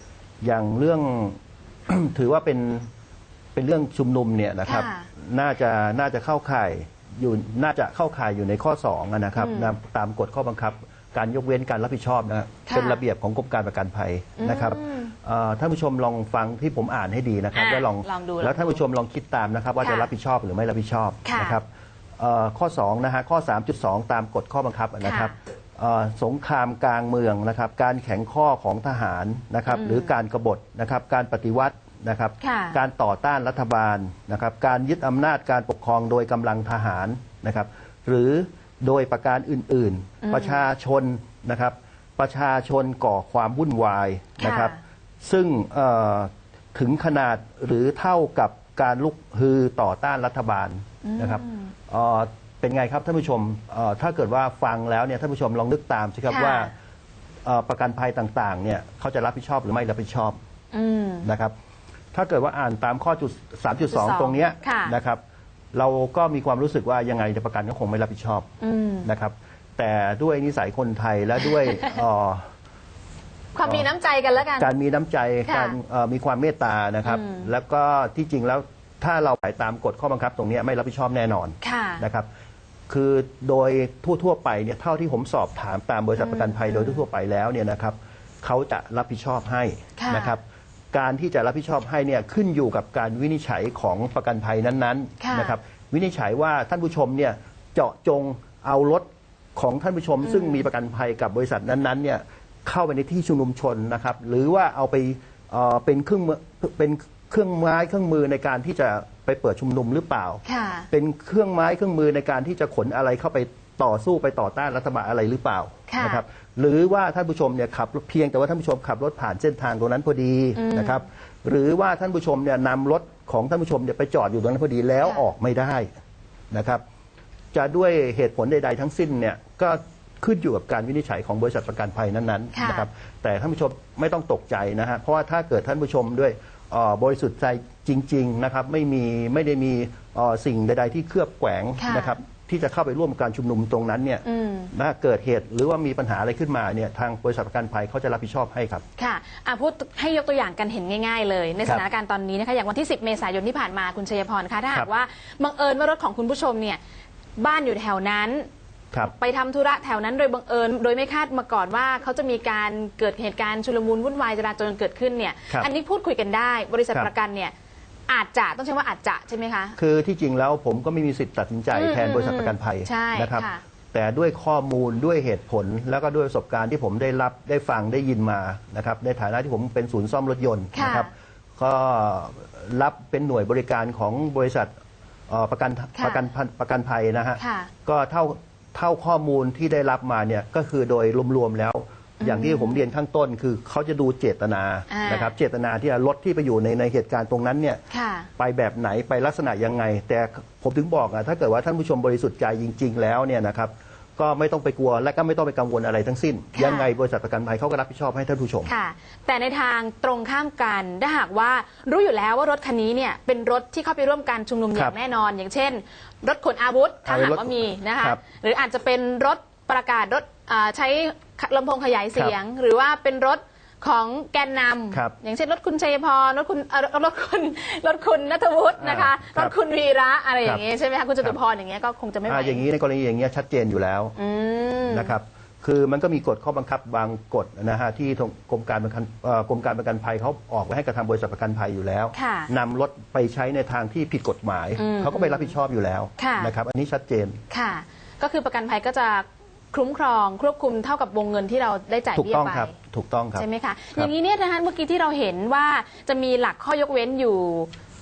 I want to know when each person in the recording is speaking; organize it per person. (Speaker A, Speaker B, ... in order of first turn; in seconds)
Speaker A: 0.4-2.9, 3.5-21.6, 22.2-56.7, 57.4-60.4, 61.2-61.5, 62.1-65.2, 65.7-68.5, 69.0-72.5, 74.6-82.3, 82.9-125.9, 126.5-126.8, 127.5-148.8, 169.8-184.7, 185.3-197.8, 198.4-208.7, 217.0-218.2, 228.8-229.5, 232.3-234.1, 234.9-247.4, 252.1-254.1
Speaker B: 4.7-5.1, 9.4-9.7, 12.7-13.0, 14.4-15.1, 17.5-18.8, 19.8-20.1, 21.2-21.6, 25.0-25.3, 29.7-30.1, 32.4-32.8, 40.2-40.6, 44.4-44.8, 51.0-51.7, 56.3-56.7, 60.7-61.3, 63.8-64.9, 68.6-69.1, 71.4-71.9, 73.5-74.7, 75.4-75.8, 77.0-77.5, 81.6-82.0, 86.2-87.0, 90.0-90.3, 95.2-95.5, 100.2-100.7, 110.4-110.9, 115.9-116.2, 120.5-121.0, 132.5-132.9, 141.8-142.2, 144.2-144.7, 149.0-156.8, 157.4-158.5, 159.0-167.5, 168.1-169.8, 171.7-173.6, 180.7-181.1, 185.9-186.2, 187.4-187.7, 192.2-192.8, 194.9-195.3, 197.9-198.3, 206.5-206.9, 208.6-232.6, 234.2-235.1, 242.1-242.5, 244.8-245.5, 246.2-246.5, 247.5-252.7, 253.3-257.7